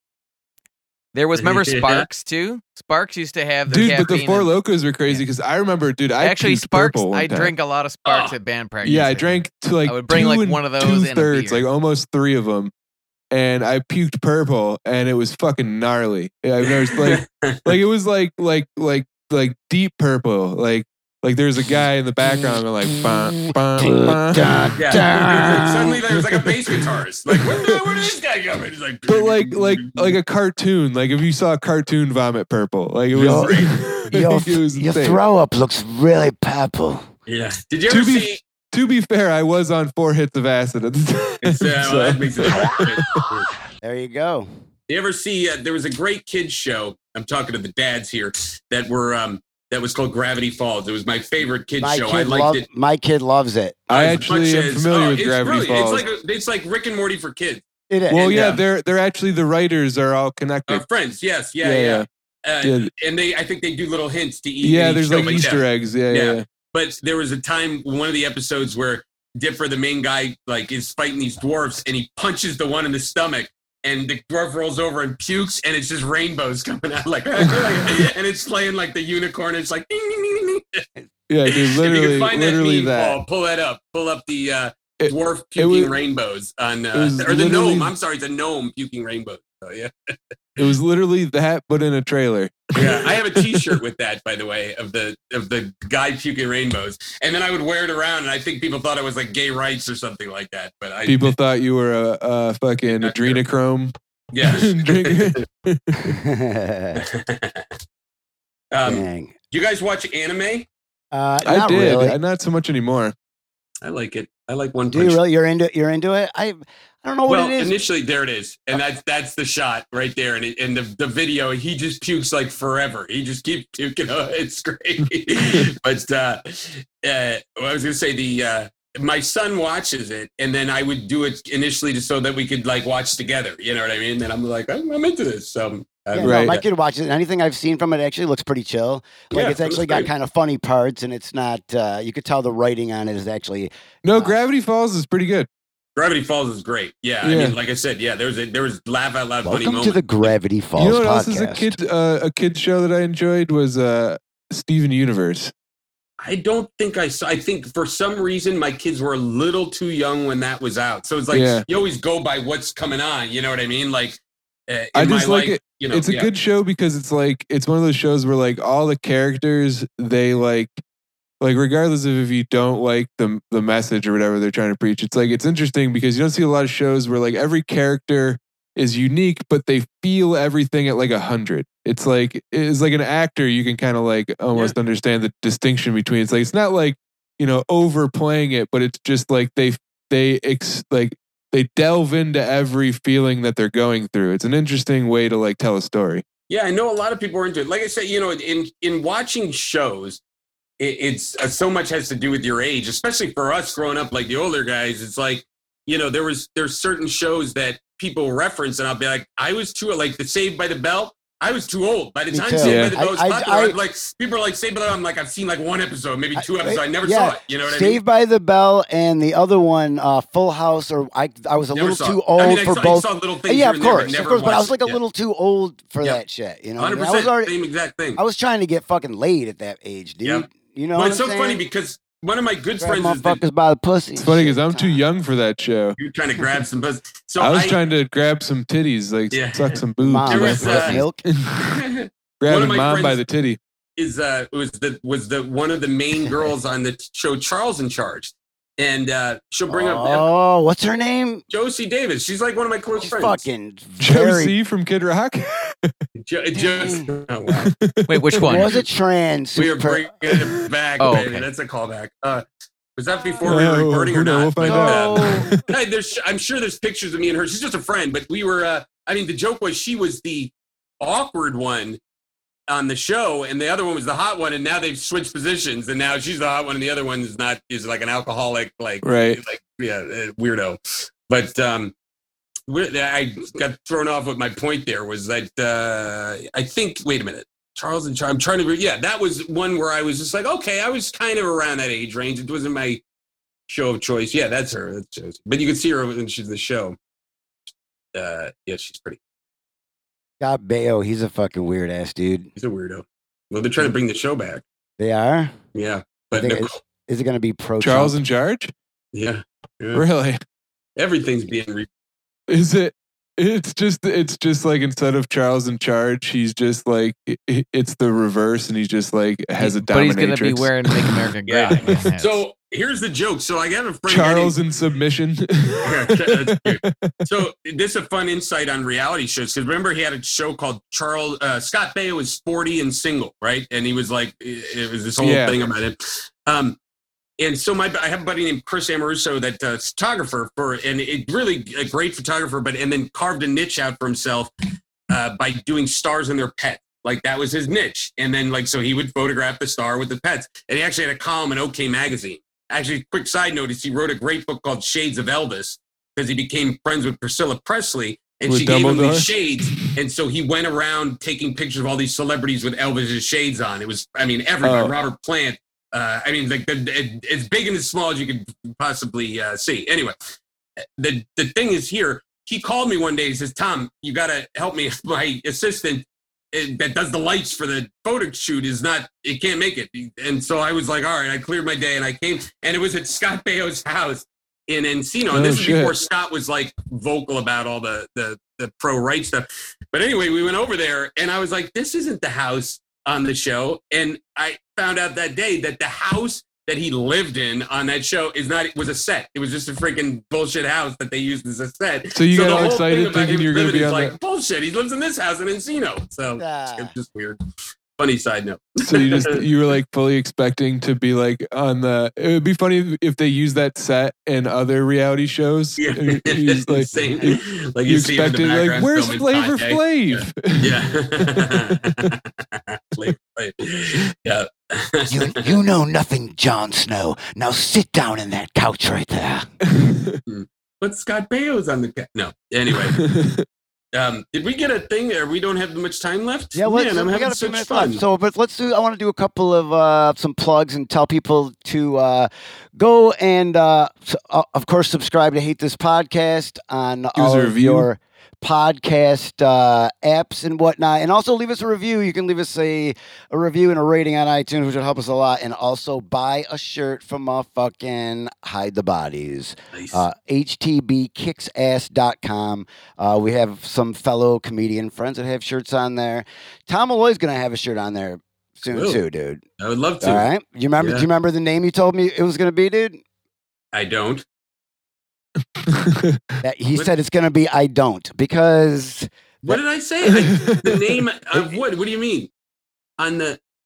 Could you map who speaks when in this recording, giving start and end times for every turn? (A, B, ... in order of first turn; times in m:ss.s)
0:01.1-0:04.5 A
0:01.4-0:02.1 B
0:03.7-0:07.5 C
0:06.2-0:11.6 A
0:08.0-0:08.3 B
0:08.8-0:12.7 C
0:13.3-0:25.1 C
0:16.6-0:17.7 B
0:23.8-0:26.0 D
0:24.8-0:30.2 B
0:27.3-0:27.8 C
0:29.1-0:35.2 C
0:33.1-0:33.7 B
0:33.1-0:37.0 D
0:37.3-0:38.4 B
0:37.9-0:43.2 C
0:41.4-0:43.5 B
0:43.8-0:44.5 D
0:44.9-0:52.6 B
0:51.8-0:53.9 D
0:53.9-0:58.6 B
0:53.9-0:56.0 C
0:57.9-0:58.5 D
0:58.1-1:00.8 C
1:00.7-1:20.8 B
1:01.6-1:02.0 C
1:02.6-1:02.9 C
1:04.6-1:06.4 C
1:17.4-1:18.0 C
1:21.3-1:23.2 C
1:21.4-1:29.9 B
1:25.0-1:25.9 C
1:26.9-1:27.9 C
1:30.6-1:33.6 C
1:32.7-1:41.3 B
1:41.0-1:46.1 C
1:43.0-1:43.4 B
1:44.3-1:45.4 B
1:46.0-1:47.0 D
1:46.9-1:47.7 B
1:48.7-1:50.7 B
1:48.8-1:49.3 D
1:51.1-1:52.2 D
1:51.4-1:53.1 C
1:53.8-1:55.2 B
1:54.9-1:57.7 D
1:57.3-2:16.6 B
2:16.1-2:24.4 D
2:16.2-2:16.6 C
2:19.3-2:20.1 B
2:24.0-2:25.5 C
2:26.0-2:30.3 B
2:27.2-2:27.6 C
2:29.4-2:31.7 D
2:30.8-2:35.5 C
2:36.2-2:44.2 B
2:41.3-2:41.6 C
2:44.7-2:46.3 B
2:44.9-2:50.8 C
2:51.4-3:16.2 C
3:16.5-3:20.2 B
3:20.8-3:38.0 B
3:32.3-3:33.8 D
3:32.6-3:33.0 C
3:36.3-3:47.5 D
3:41.7-3:45.0 B
3:46.8-3:48.2 B
3:48.1-3:51.6 D
3:50.2-3:53.4 B
3:52.8-3:55.0 D
3:54.2-3:56.0 C
3:56.0-3:57.8 B
3:57.4-4:01.8 C
3:59.3-4:01.0 B
4:00.0-4:01.2 D
4:01.6-4:03.2 B
4:02.4-4:03.6 C
4:04.0-4:10.2 B
4:06.2-4:06.5 D
4:09.7-4:11.4 D
4:11.5-4:13.4 B
4:13.0-4:14.5 D
4:14.0-4:15.9 C
4:16.2-4:17.7 B
4:16.5-4:17.1 D
4:17.5-4:18.6 C
4:18.1-4:18.7 A
4:18.4-4:20.1 D
4:19.6-4:22.4 B
4:21.0-4:21.4 A
4:23.0-4:32.0 B
4:23.1-4:23.4 D
4:23.4-4:25.6 C
4:24.6-4:25.6 D
4:32.7-4:41.9 B
4:39.0-4:39.4 C
4:42.7-4:53.0 B
4:53.7-4:57.0 B
4:58.1-4:59.2 B
5:00.4-5:02.5 D
5:02.6-5:04.6 B
5:05.0-5:05.5 D
5:05.7-5:06.8 B
5:06.3-5:08.2 D
5:07.8-5:08.7 C
5:09.1-5:10.0 B
5:09.9-5:10.4 C
5:11.0-5:11.9 B
5:12.5-5:21.2 C
5:19.6-5:22.4 A
5:21.5-5:24.6 B
5:24.1-5:27.1 C
5:25.8-5:36.8 B
5:35.2-5:35.6 C
5:37.4-5:44.5 B
5:45.1-6:10.2 B
5:58.5-5:59.9 C
6:04.6-6:04.9 C
6:11.0-6:47.4 B
6:25.3-6:26.0 C
6:42.1-6:44.1 C
6:46.4-6:46.9 D
6:48.0-6:49.4 B
6:48.8-7:02.1 C
6:55.8-7:05.6 B
7:05.1-7:09.4 D
7:09.6-7:10.2 C
7:10.3-7:13.0 B
7:12.7-7:13.4 C
7:13.9-7:18.0 B
7:16.6-7:49.4 D
7:27.2-7:27.9 C
7:39.7-7:40.0 B
7:48.7-7:49.0 B
7:49.6-7:50.2 B
7:50.0-7:53.0 D
7:50.8-7:51.0 B
7:53.7-7:54.2 B
7:55.6-7:56.2 C
7:56.4-7:59.6 D
7:59.4-8:02.3 B
8:00.2-8:01.0 C
8:01.3-8:01.6 D
8:03.0-8:03.4 B